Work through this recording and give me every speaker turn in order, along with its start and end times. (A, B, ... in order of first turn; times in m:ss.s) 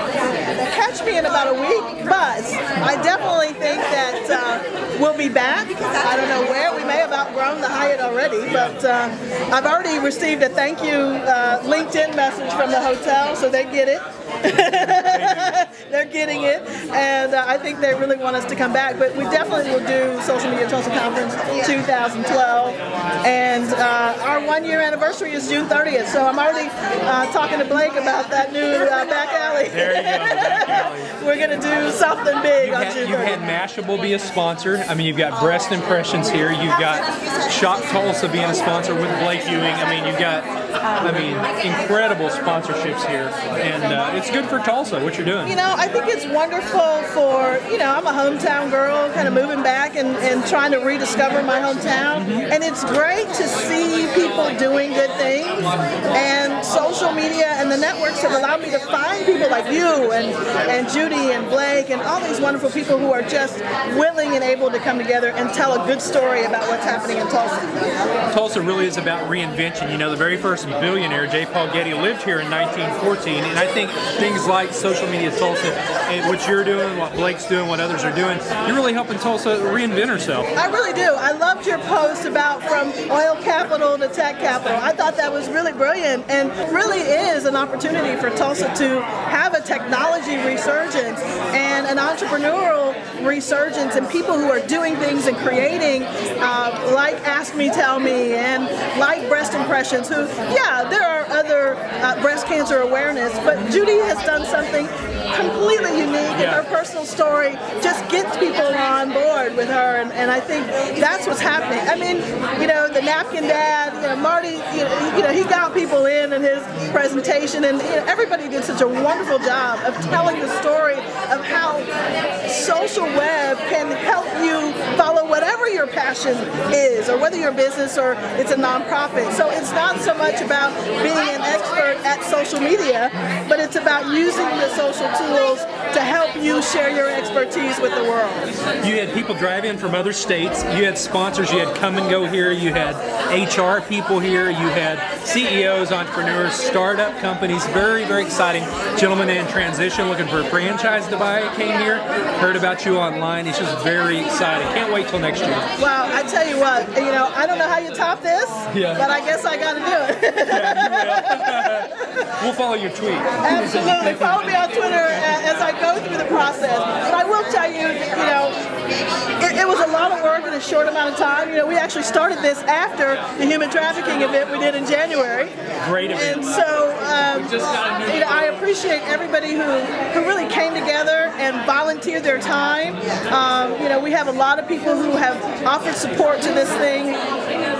0:00.6-0:33.4 A
0:08.5-0:08.8 B
0:14.8-0:15.6 B
0:29.7-0:31.1 B
0:32.6-0:40.5 B
0:41.0-0:45.6 B
0:45.4-1:07.7 A
0:52.2-0:52.5 B
1:08.3-1:20.5 B
1:20.5-2:01.9 A
1:46.3-1:46.6 B
2:02.4-2:18.5 A
2:18.8-2:35.7 B
2:35.8-2:42.3 A
2:38.7-2:39.0 B
2:40.5-2:45.3 B
2:43.4-2:48.6 A
2:49.4-2:55.5 A
2:55.8-2:56.6 B
2:56.1-3:07.2 A